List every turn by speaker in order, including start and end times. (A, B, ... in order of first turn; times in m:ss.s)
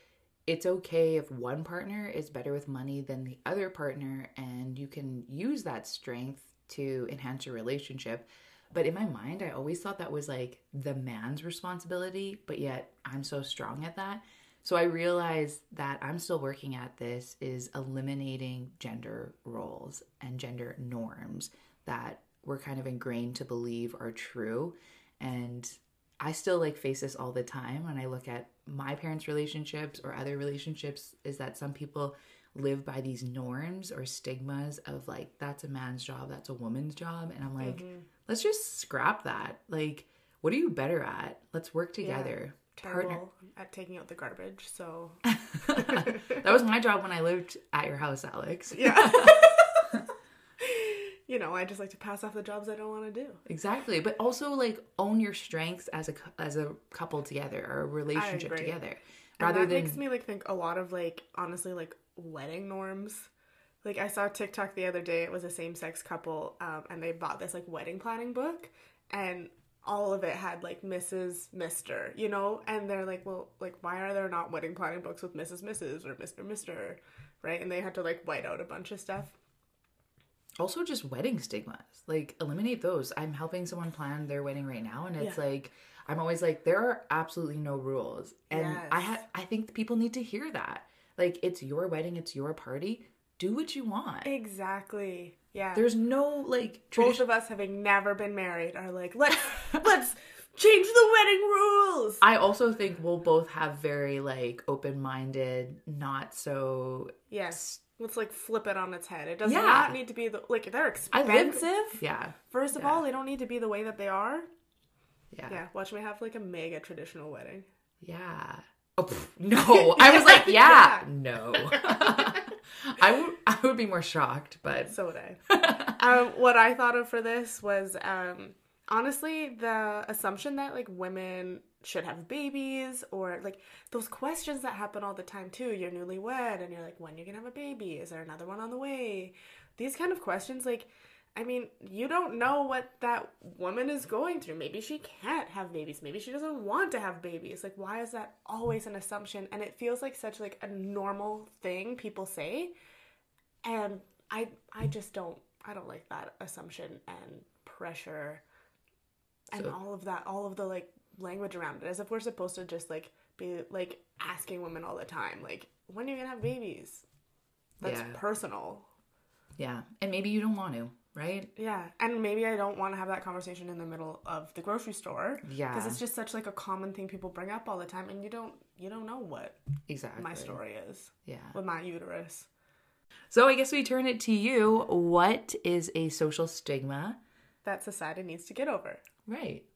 0:00.5-0:43.2 A
0:37.6-0:38.1 B
0:42.0-0:46.4 B
0:45.3-0:50.0 A
0:48.7-0:49.9 B
0:50.6-0:53.4 B
0:53.5-1:00.0 A
0:58.1-0:58.8 B
0:59.4-1:03.3 B
1:03.8-1:19.4 B
1:20.6-1:34.3 A
1:28.5-1:29.2 B
1:34.2-1:35.8 B
1:35.8-1:37.2 A
1:37.0-1:42.2 B
1:42.2-1:47.7 A
1:47.3-1:54.5 B
1:49.4-1:50.0 A
1:51.1-1:53.0 A
1:55.3-1:55.6 A
1:55.5-1:57.7 B
1:58.0-2:05.0 A
1:59.7-2:01.1 B
2:01.7-2:02.5 B
2:04.9-2:05.4 B
2:05.5-2:06.0 A
2:05.9-2:32.7 B
2:33.6-2:38.4 B
2:39.5-2:47.0 B
2:47.8-2:48.9 B
2:47.8-2:48.2 A
2:49.6-2:51.5 A
2:51.6-2:59.6 B
2:55.4-2:56.0 A
2:59.9-3:00.6 A
3:00.2-3:02.5 B
3:01.2-3:01.6 A
3:03.3-3:07.2 A
3:07.6-3:09.0 B
3:09.3-3:09.6 A